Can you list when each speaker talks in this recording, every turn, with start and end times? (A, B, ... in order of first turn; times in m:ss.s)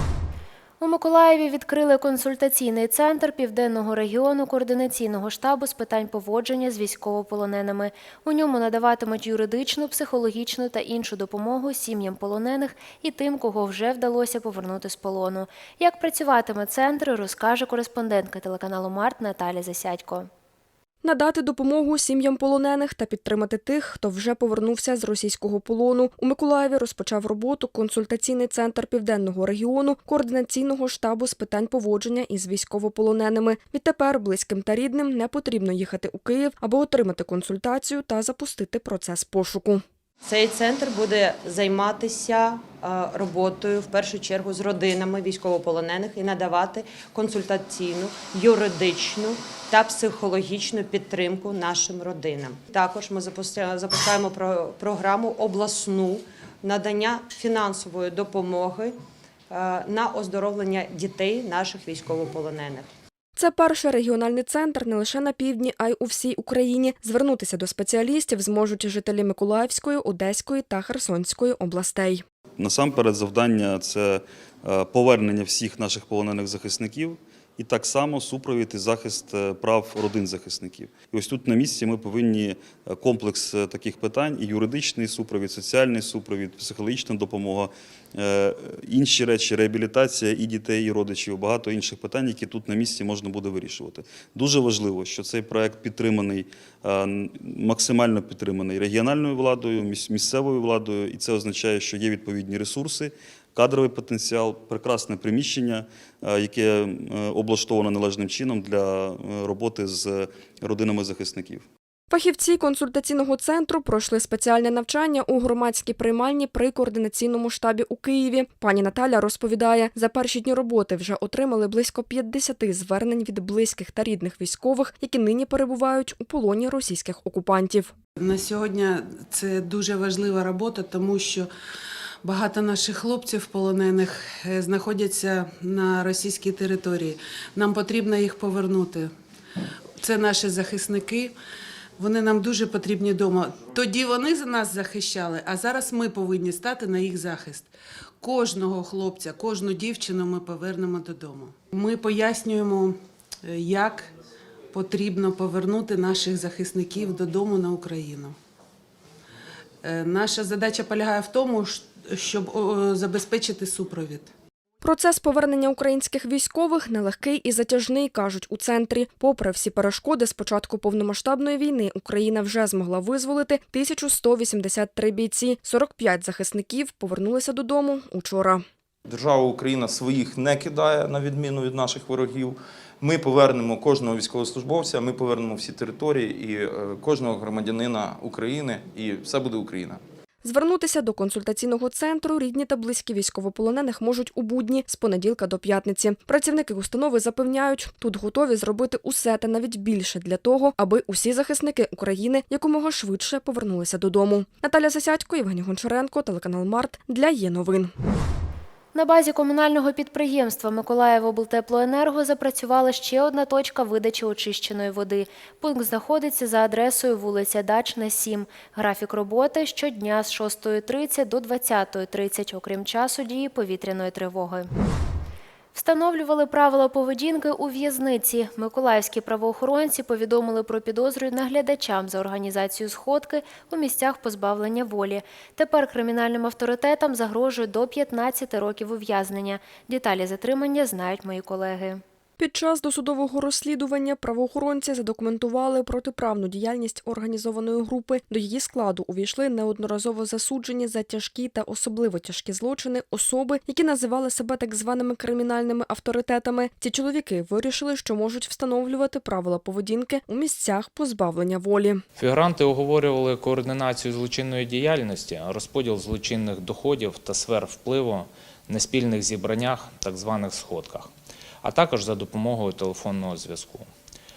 0:00.8-0:20.3 A
0:21.0-0:39.8 B
0:40.2-0:59.0 C
0:59.5-1:02.9 C
1:03.4-1:12.2 B
1:12.6-1:51.6 D
1:52.1-2:07.9 B
2:08.2-2:11.5 E
2:12.2-2:19.1 E
2:20.0-2:21.3 E
2:22.0-2:27.7 E
2:28.2-2:32.9 E
2:33.4-2:34.1 E
2:34.7-2:38.3 E
2:39.8-2:44.3 E
2:44.8-2:58.6 B
2:59.1-3:10.0 F
3:10.4-3:27.9 B
3:28.9-3:44.7 A
3:45.7-4:02.0 A
4:02.4-4:22.0 B
4:22.2-4:31.1 G
4:31.6-4:33.9 G